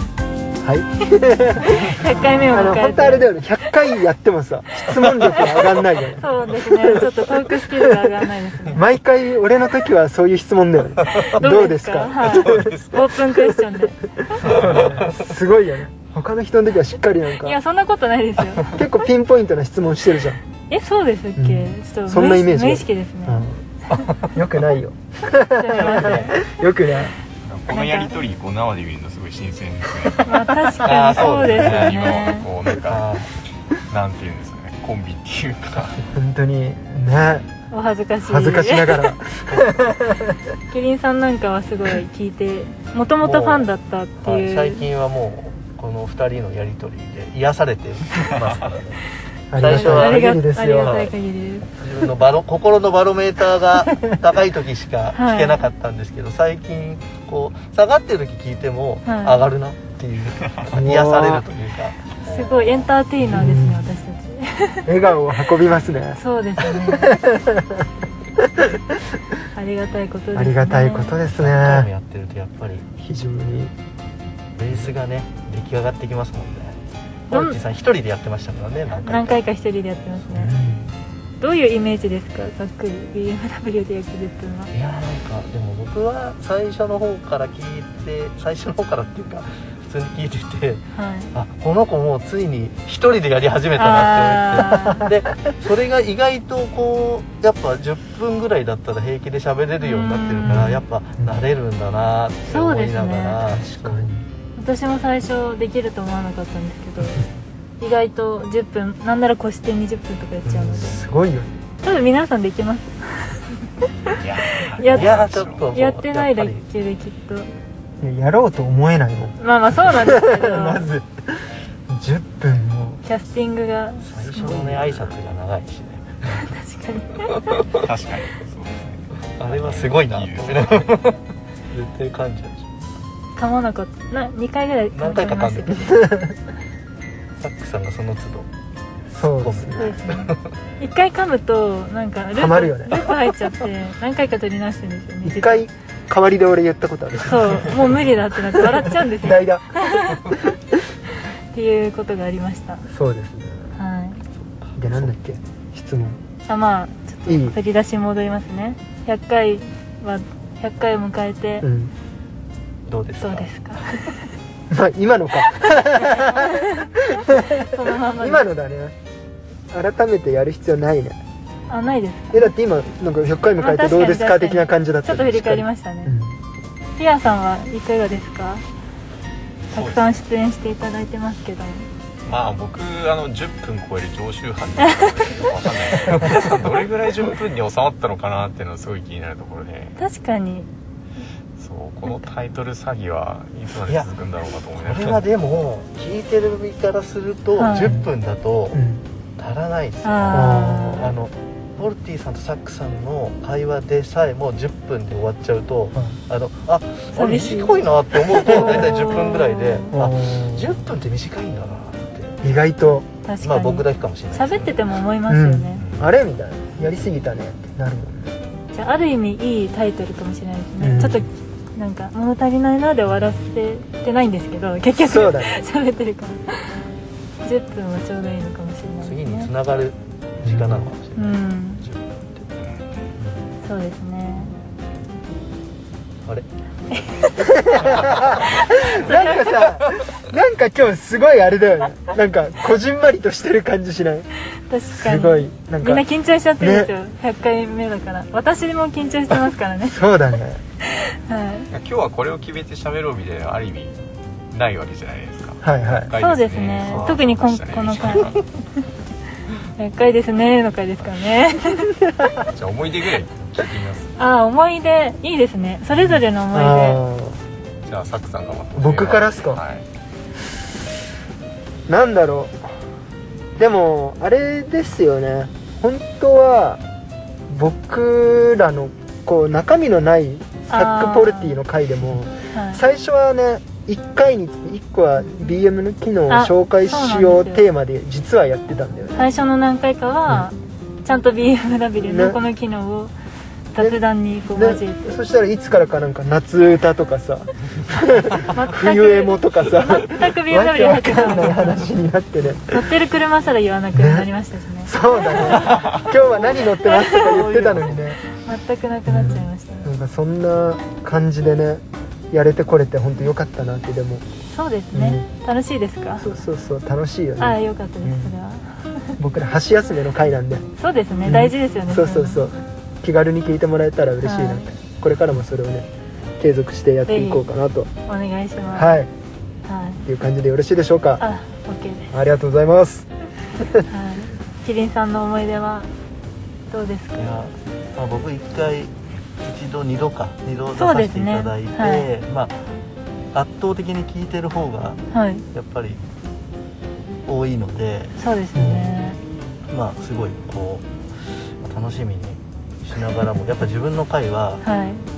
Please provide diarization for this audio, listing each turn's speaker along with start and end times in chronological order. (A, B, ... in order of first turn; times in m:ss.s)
0:00.6-0:02.0 A
0:01.8-0:03.4 B
0:02.5-0:07.3 A
0:05.0-0:05.7 C
0:06.2-0:08.8 B
0:08.7-0:12.8 A
0:11.4-0:14.0 B
0:12.2-0:13.1 C
0:14.2-0:17.6 A
0:14.5-0:15.3 C
0:17.4-0:18.8 B
0:18.7-0:20.4 A
0:20.7-0:24.1 B
0:21.4-0:23.6 A
0:24.2-0:27.2 A
0:25.6-0:26.4 B
0:25.8-0:26.3 C
0:27.4-0:33.0 D
0:27.7-0:28.1 B
0:30.2-0:32.5 B
0:30.8-0:31.7 C
0:32.9-0:33.3 C
0:33.9-0:36.0 D
0:36.1-0:37.5 A
0:37.7-0:39.1 B
0:38.3-0:40.2 A
0:40.7-0:44.9 B
0:43.2-0:43.7 C
0:44.2-0:49.0 C
0:49.5-0:51.0 A
0:49.6-0:51.1 C
0:49.6-0:51.7 B
0:51.8-1:02.0 C
0:55.1-0:55.6 B
0:59.0-0:59.5 B
1:00.7-1:01.5 A
1:02.2-1:04.9 B
1:03.2-1:04.0 A
1:04.9-1:07.8 A
1:06.2-1:07.1 B
1:09.5-1:11.2 B
1:10.4-1:11.9 A
1:11.3-1:12.9 C
1:13.0-1:13.7 A
1:14.6-1:19.4 C
1:17.3-1:17.6 B
1:19.0-1:20.5 B
1:20.3-1:20.9 A
1:21.4-1:24.7 B
1:24.7-1:44.1 C
1:31.0-1:31.3 B
1:33.8-1:35.1 B
1:39.8-1:40.8 B
1:40.5-1:41.4 A
1:42.4-1:43.4 B
1:43.4-1:44.3 A
1:44.6-1:47.3 B
1:47.8-1:51.0 B
1:50.4-1:51.6 A
1:51.8-1:53.5 B
1:54.0-1:55.7 D
1:54.8-1:55.2 B
1:54.9-1:56.7 C
1:55.7-1:57.5 B
1:58.0-2:03.0 A
1:59.4-2:00.9 B
2:03.0-2:04.8 B
2:04.0-2:06.5 C
2:06.3-2:07.7 B
2:07.7-2:11.1 D
2:09.4-2:11.2 C
2:11.7-2:12.7 C
2:13.4-2:15.8 B
2:14.9-2:15.9 C
2:15.7-2:16.4 A
2:17.4-2:18.5 C
2:19.1-2:19.9 A
2:19.2-2:20.4 C
2:19.8-2:25.6 B
2:22.3-2:23.2 A
2:25.2-2:28.0 A
2:27.2-2:30.3 B
2:28.6-2:30.6 A
2:31.5-2:32.9 B
2:32.9-2:33.8 A
2:33.8-2:34.2 B
2:34.3-2:35.1 C
2:34.8-2:36.2 A
2:36.5-2:41.7 B
2:37.3-2:37.6 A
2:41.6-2:41.9 A
2:42.9-2:43.6 C
2:43.2-2:44.3 B
2:44.7-2:49.0 A
2:46.0-2:48.5 B
2:49.7-2:51.2 A
2:51.7-2:52.5 B
2:52.3-2:56.4 A
2:53.6-2:56.2 B
2:57.0-2:58.6 B
2:59.7-3:00.2 D
2:59.7-3:01.9 B
3:02.2-3:10.0 D
3:10.0-3:10.7 B
3:11.6-3:15.2 D
3:13.8-3:14.1 C
3:14.8-3:18.8 C
3:17.6-3:18.0 B
3:17.8-3:18.1 A
3:18.7-3:19.0 A
3:19.4-3:32.4 C
3:20.0-3:21.1 B
3:20.3-3:21.1 A
3:27.2-3:30.0 B
3:29.9-3:30.8 A
3:32.4-3:33.1 A
3:33.2-3:35.8 B
3:33.4-3:34.8 C
3:35.3-3:38.4 A
3:35.8-3:36.1 D
3:38.7-3:46.8 B
3:40.8-3:41.3 A
3:45.0-3:45.6 A
3:47.4-3:49.5 B
3:49.0-3:51.4 C
3:50.4-3:50.9 A
3:51.2-3:51.9 B
3:51.9-3:52.2 C
3:52.4-3:52.8 D
3:53.2-3:53.5 C
3:53.6-3:54.5 B
3:56.9-3:57.7 B
3:57.6-4:04.3 A
3:58.0-3:58.6 C
3:59.3-3:59.6 C
4:04.7-4:10.0 B
4:04.9-4:06.1 A
4:06.6-4:06.9 A
4:09.8-4:10.6 A
4:10.8-4:11.7 B
4:11.7-4:14.0 D
4:14.5-4:18.4 D
4:15.6-4:16.1 A
4:16.2-4:18.3 B
4:19.8-4:22.0 B
4:22.5-4:24.1 D
4:24.2-4:27.0 B
4:26.0-4:27.4 A
4:27.9-4:29.8 D
4:28.8-4:29.6 A
4:31.9-4:32.7 A
4:33.6-4:36.8 A
4:37.5-4:49.2 A
4:40.7-4:41.6 B
4:42.5-4:42.8 B
4:46.3-4:47.7 B
4:49.1-4:53.1 B
4:52.0-4:52.4 A
4:53.7-4:55.2 B
4:54.5-5:02.9 A
4:58.5-5:01.9 B
5:02.7-5:05.7 B
5:03.9-5:04.3 A
5:04.8-5:08.2 A
5:05.7-5:06.1 D
5:06.3-5:08.0 C
5:06.8-5:07.5 B
5:08.3-5:09.9 B
5:09.1-5:14.2 A
5:14.5-5:16.2 B
5:14.9-5:15.3 A
5:16.2-5:18.3 A
5:17.4-5:19.1 B
5:19.2-5:20.6 A
5:20.8-5:22.5 B
5:21.2-5:27.9 A
5:24.2-5:24.7 B
5:27.1-5:27.4 B
5:28.1-5:29.0 B
5:28.7-5:29.1 A
5:29.6-5:30.0 B
5:30.1-5:31.2 A
5:31.2-5:32.1 B
5:32.1-5:33.9 A
5:33.9-5:35.9 B
5:36.7-5:37.4 B
5:37.2-5:42.6 C
5:40.8-5:42.1 B
5:43.3-5:45.0 C
5:45.1-5:45.4 B
5:45.5-5:46.0 C
5:47.3-5:48.2 C
5:48.2-5:49.2 B
5:48.6-5:48.9 A
5:49.7-5:54.6 C
5:54.6-5:55.1 B